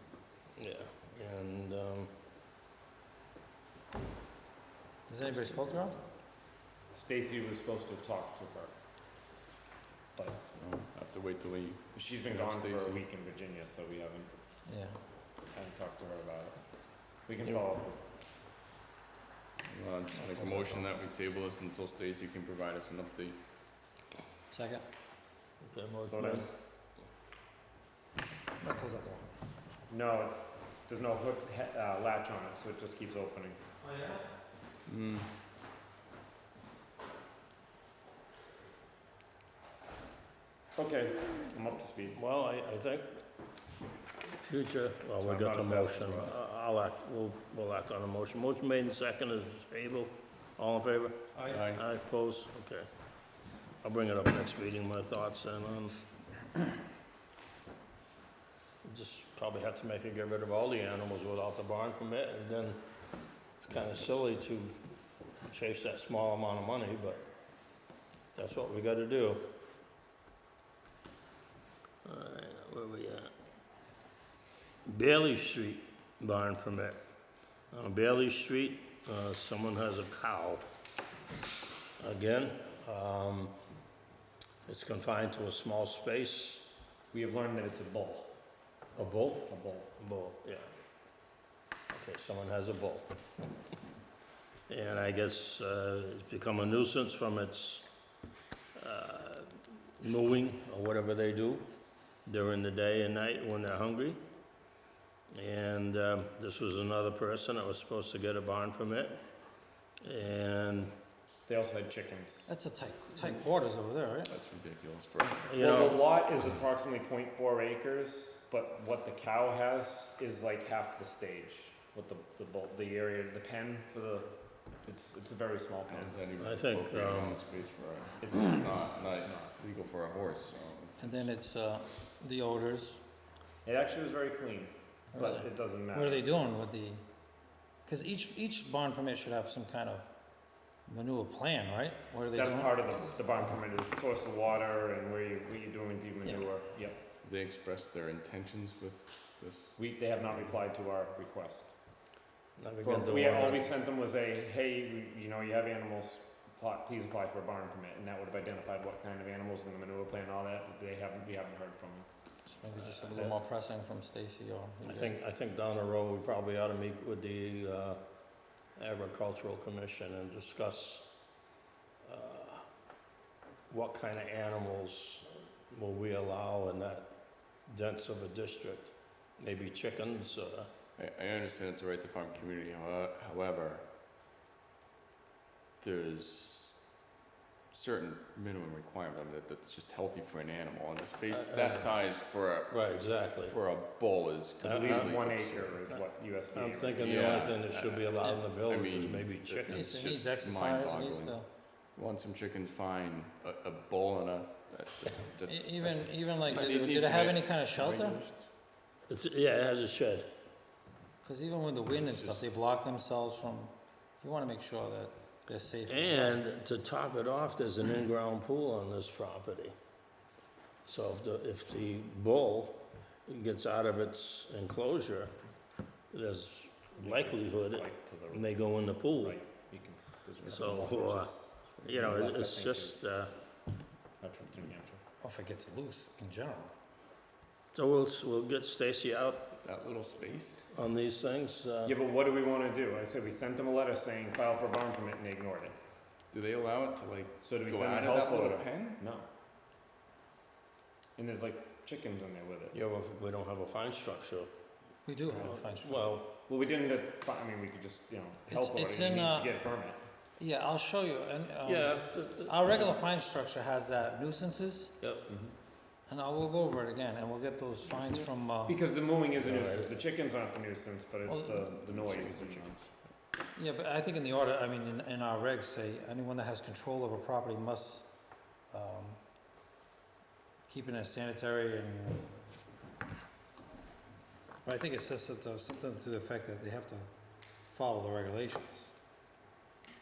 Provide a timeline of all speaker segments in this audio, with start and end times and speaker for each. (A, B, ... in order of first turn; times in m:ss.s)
0:00.6-0:02.1 A
0:05.1-0:06.0 B
0:06.9-0:08.8 C
0:10.2-0:10.4 C
0:10.5-0:13.0 D
0:11.9-0:14.3 C
0:14.6-0:15.0 B
0:15.5-0:18.1 C
0:19.7-0:23.4 D
0:20.2-0:20.8 B
0:24.5-0:24.8 B
0:25.6-0:26.5 A
0:26.0-0:26.5 C
0:28.6-0:29.3 B
0:29.9-0:33.6 C
0:33.8-0:34.2 B
0:34.9-0:35.3 D
0:40.8-0:42.2 C
0:42.1-0:43.2 A
0:44.4-0:52.9 A
0:45.2-0:46.3 C
0:51.4-0:51.6 B
0:51.5-0:51.8 D
0:53.8-0:56.0 A
0:58.8-1:02.8 A
1:03.6-1:04.8 A
1:05.4-1:07.2 A
1:08.3-1:09.5 A
1:12.0-1:13.3 A
1:14.8-1:17.0 A
1:17.7-1:20.6 A
1:22.0-1:23.6 A
1:24.6-1:26.7 A
1:27.1-1:28.4 C
1:29.0-1:30.7 A
1:29.5-1:29.9 C
1:31.9-1:33.2 A
1:34.7-1:37.8 A
1:38.7-1:41.6 A
1:42.2-1:44.2 A
1:45.3-1:49.2 A
1:50.0-1:50.9 A
1:51.5-1:52.5 C
1:52.5-1:54.3 B
1:54.3-1:55.4 D
1:55.5-1:56.0 A
1:55.6-2:06.2 C
2:05.9-2:11.3 D
2:06.4-2:07.4 A
2:08.2-2:09.5 C
2:11.0-2:13.0 B
2:13.6-2:16.3 C
2:15.1-2:17.0 B
2:17.8-2:22.7 B
2:22.3-2:27.0 C
2:27.2-2:29.8 D
2:29.8-2:31.8 C
2:32.6-2:33.7 A
2:32.8-2:42.1 C
2:42.4-2:45.1 B
2:42.9-2:43.3 C
2:44.8-2:48.0 A
2:48.6-2:51.1 A
2:52.0-2:52.7 A
2:53.7-3:00.7 A
3:01.0-3:03.8 D
3:05.8-3:07.0 D
3:07.7-3:15.8 D
3:11.3-3:11.9 A
3:12.7-3:13.6 A
3:14.6-3:15.1 A
3:14.6-3:17.6 C
3:16.5-3:19.9 A
3:17.0-3:28.5 D
3:19.7-3:21.4 B
3:25.4-3:28.2 B
3:29.1-3:30.3 A
3:31.2-3:36.4 B
3:32.2-3:32.4 D
3:35.9-3:39.7 A
3:40.8-3:45.3 A
3:46.1-3:49.4 A
3:47.0-3:53.4 C
3:50.4-3:51.3 A
3:51.8-3:53.3 A
3:54.2-3:55.0 C
3:55.2-3:56.7 B
3:57.7-3:59.5 A
3:59.6-4:00.6 D
4:00.7-4:02.0 A
4:01.8-4:05.7 C
4:06.3-4:09.0 D
4:07.4-4:09.3 C
4:11.2-4:12.8 C
4:12.7-4:14.5 A
4:15.0-4:16.0 B
4:15.4-4:16.4 A
4:16.5-4:20.0 C
4:18.5-4:19.5 B
4:20.4-4:25.0 B
4:21.6-4:22.9 A
4:25.0-4:25.3 A
4:25.3-4:25.6 C
4:26.1-4:28.8 B
4:27.9-4:28.3 D
4:28.6-4:32.7 C
4:29.4-4:29.9 A
4:31.3-4:31.8 B
4:31.9-4:33.0 D
4:33.6-4:39.2 B
4:40.7-4:42.4 B
4:44.6-4:48.9 B